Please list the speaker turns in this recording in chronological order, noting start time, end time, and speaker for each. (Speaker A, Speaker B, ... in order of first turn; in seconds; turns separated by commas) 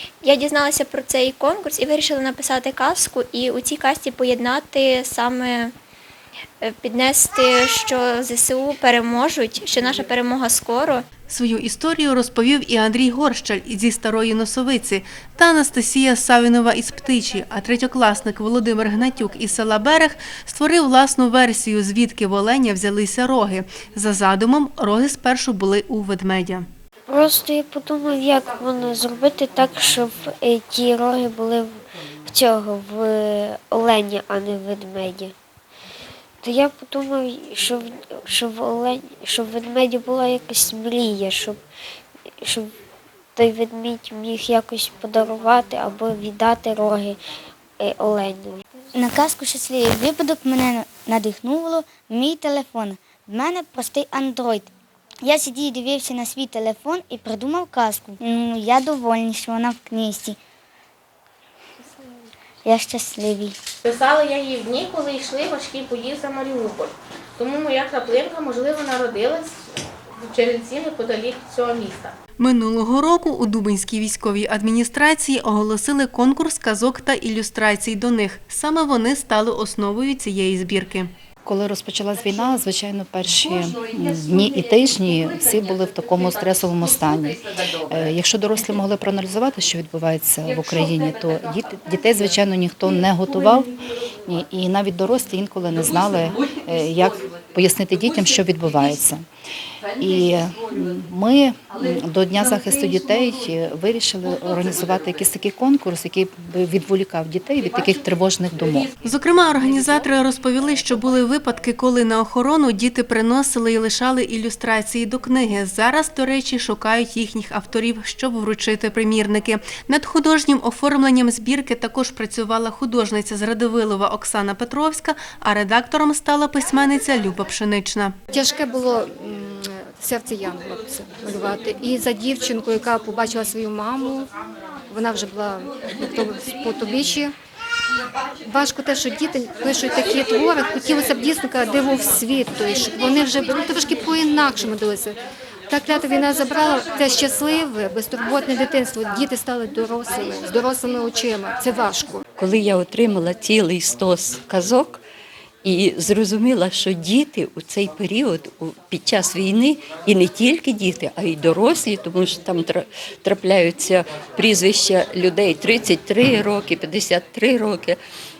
Speaker A: 0.2-5.7, Speaker A: 6.6-11.0, Speaker B: 11.3-26.6, Speaker C: 27.1-35.3, Speaker C: 36.4-41.6, Speaker C: 42.3-42.8, Speaker C: 43.3-47.2, Speaker C: 47.8-48.6, Speaker D: 48.9-54.7, Speaker D: 55.2-60.4, Speaker D: 62.6-63.5, Speaker E: 63.8-69.5, Speaker E: 70.2-72.1, Speaker B: 72.4-81.1, Speaker F: 81.4-93.7, Speaker F: 94.2-99.2, Speaker F: 100.0-108.9, Speaker B: 109.0-128.1, Speaker G: 128.3-134.3, Speaker G: 134.9-137.3, Speaker G: 138.4-145.2, Speaker G: 145.7-152.2, Speaker H: 152.4-155.0, Speaker H: 155.6-168.0